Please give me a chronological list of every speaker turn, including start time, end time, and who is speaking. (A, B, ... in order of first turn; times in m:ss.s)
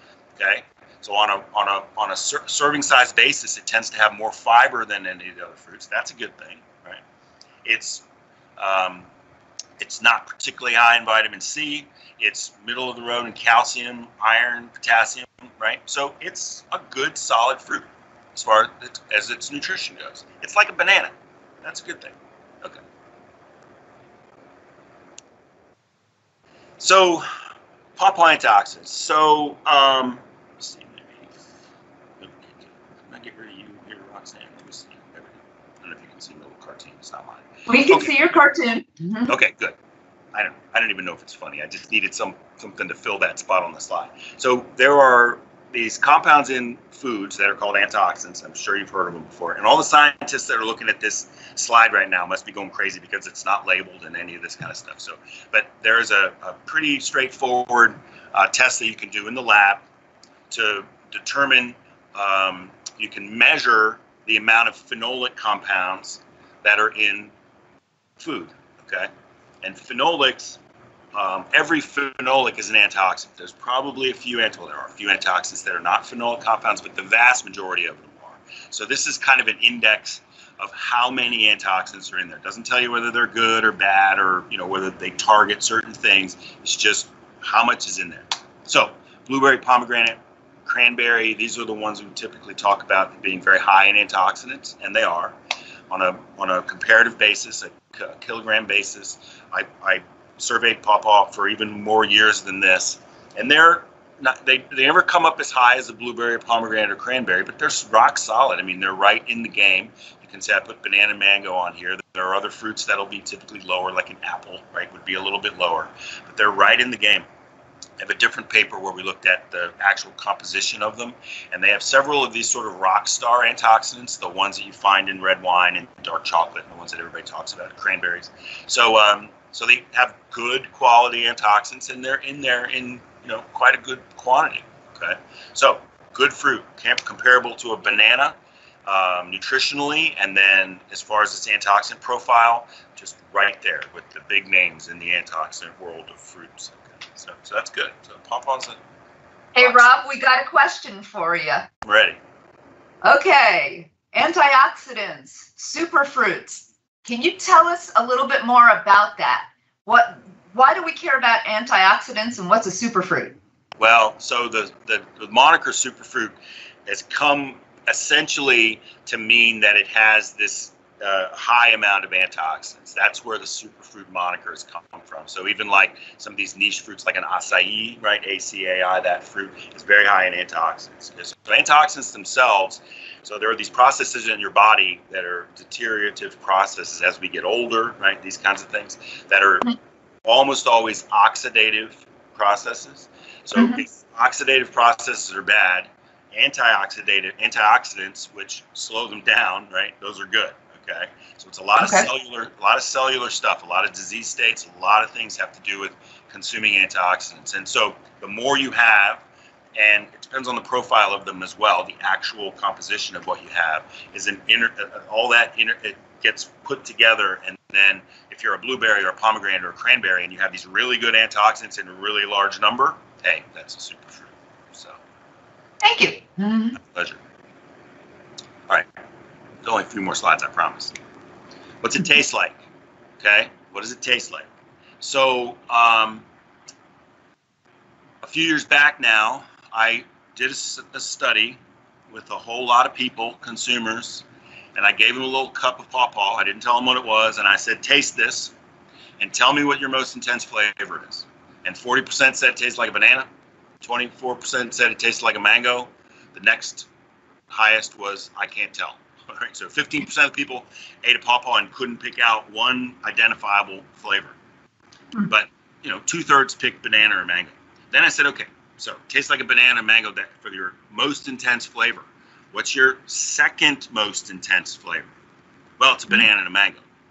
0:00.4-0:07.0 A
0:07.6-0:08.0 A
0:08.6-0:09.1 A
0:09.8-0:22.8 A
0:26.8-0:27.2 A
0:28.0-0:31.4 A
0:32.2-0:38.3 A
0:37.7-0:39.3 B
0:39.3-0:39.8 A
0:40.3-0:59.8 A
1:00.5-1:07.3 A
1:08.2-1:09.1 A
1:09.6-1:10.6 A
1:11.1-1:35.4 A
1:35.9-1:57.2 A
1:58.0-2:28.8 A
2:29.5-2:31.7 B
2:29.6-2:29.8 A
2:31.8-2:32.2 A
2:33.0-2:43.3 B
2:43.8-3:09.7 A
3:10.2-3:29.2 A
3:13.6-3:13.8 B
3:21.8-3:22.1 B
3:29.8-3:45.0 A
3:45.8-3:46.8 B
3:46.8-3:47.2 A
3:49.6-3:50.9 A
3:51.8-3:52.6 A
3:53.2-3:54.5 A
3:55.0-3:56.2 A
3:58.2-4:08.5 A
4:09.2-4:13.3 A
4:13.8-4:16.9 A
4:17.5-4:24.4 A
4:25.3-4:35.1 A
4:35.8-4:36.8 A